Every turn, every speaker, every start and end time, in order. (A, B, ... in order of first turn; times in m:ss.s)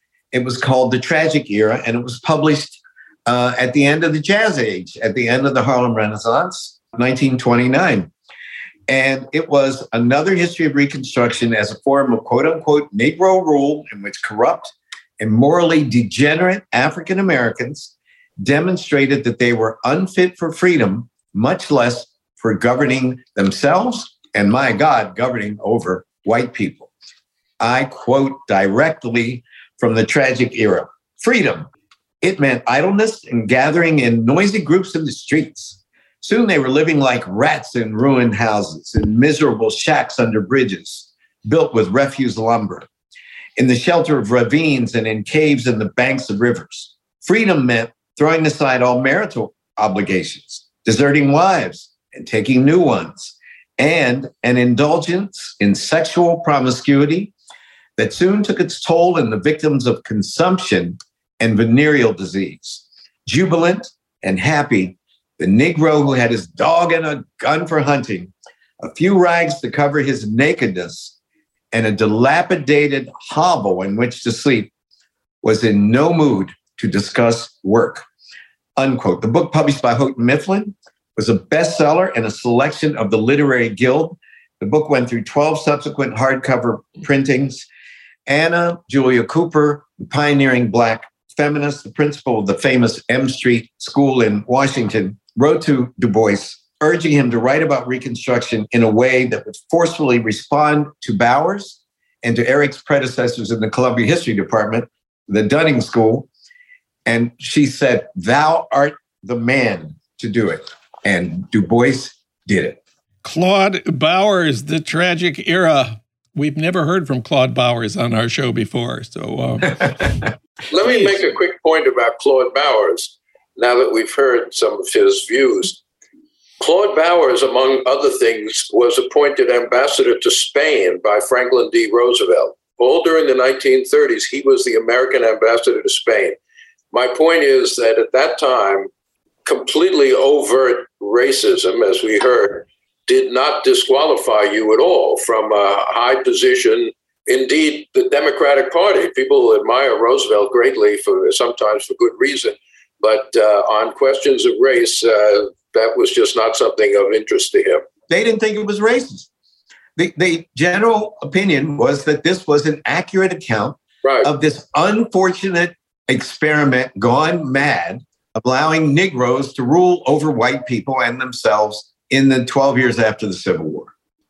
0:00.3-0:08.1 A
0:08.9-0:26.9 A
0:27.6-0:31.7 A
0:32.2-0:42.9 A
0:43.6-0:57.3 A
0:58.0-1:11.1 A
1:11.7-1:14.7 A
1:15.4-1:18.0 A
1:18.8-1:27.7 A
1:28.3-1:46.3 A
1:47.1-1:52.8 A
1:53.2-2:00.1 B
2:00.7-2:05.8 C
2:00.9-2:01.2 B
2:06.6-2:16.4 C
2:16.9-2:18.9 C
2:19.4-2:37.8 C
2:38.1-2:39.3 A
2:40.0-2:53.9 A
2:44.0-2:44.3 C